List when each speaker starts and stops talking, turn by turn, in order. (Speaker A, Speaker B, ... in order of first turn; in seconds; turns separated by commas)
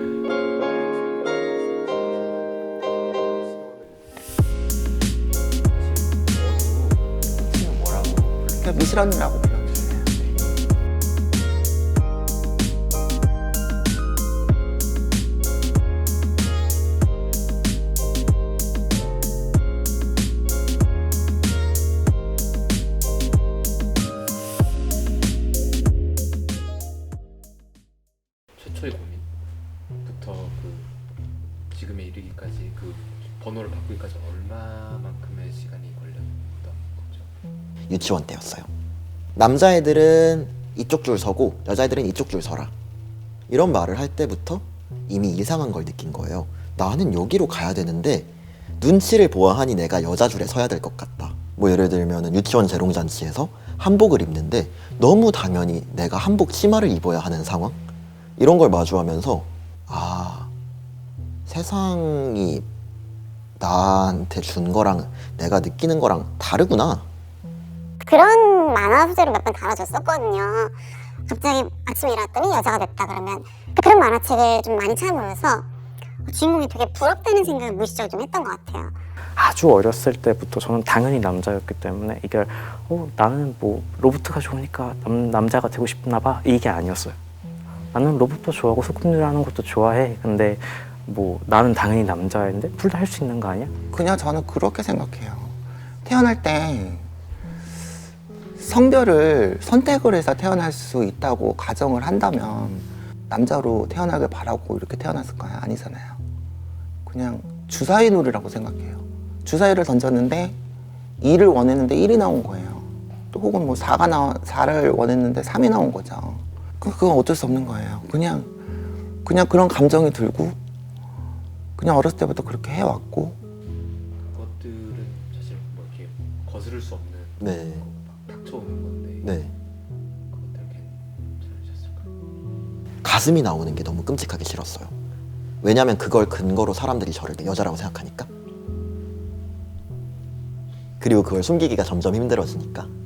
Speaker A: 0.5-4.1, Speaker A: 5.7-7.1, Speaker B: 7.4-8.6, Speaker C: 8.6-10.6, Speaker A: 28.6-29.3, Speaker A: 30.0-30.9, Speaker A: 31.7-37.3, Speaker B: 37.9-38.7, Speaker B: 39.4-42.7, Speaker B: 43.5-60.5, Speaker B: 61.5-62.7, Speaker B: 63.6-67.1, Speaker D: 68.0-75.7, Speaker D: 76.2-79.0, Speaker E: 79.3-87.2, Speaker E: 87.9-93.7, Speaker C: 93.9-97.1, Speaker C: 98.6-106.2, Speaker C: 107.0-110.6, Speaker C: 111.2-118.5, Speaker C: 119.2-120.6, Speaker C: 121.8-123.4, Speaker A: 124.2-129.5, Speaker B: 127.4-127.8, Speaker B: 129.2-129.5, Speaker A: 130.3-132.1, Speaker B: 133.0-134.9, Speaker B: 135.6-138.3, Speaker B: 141.0-142.9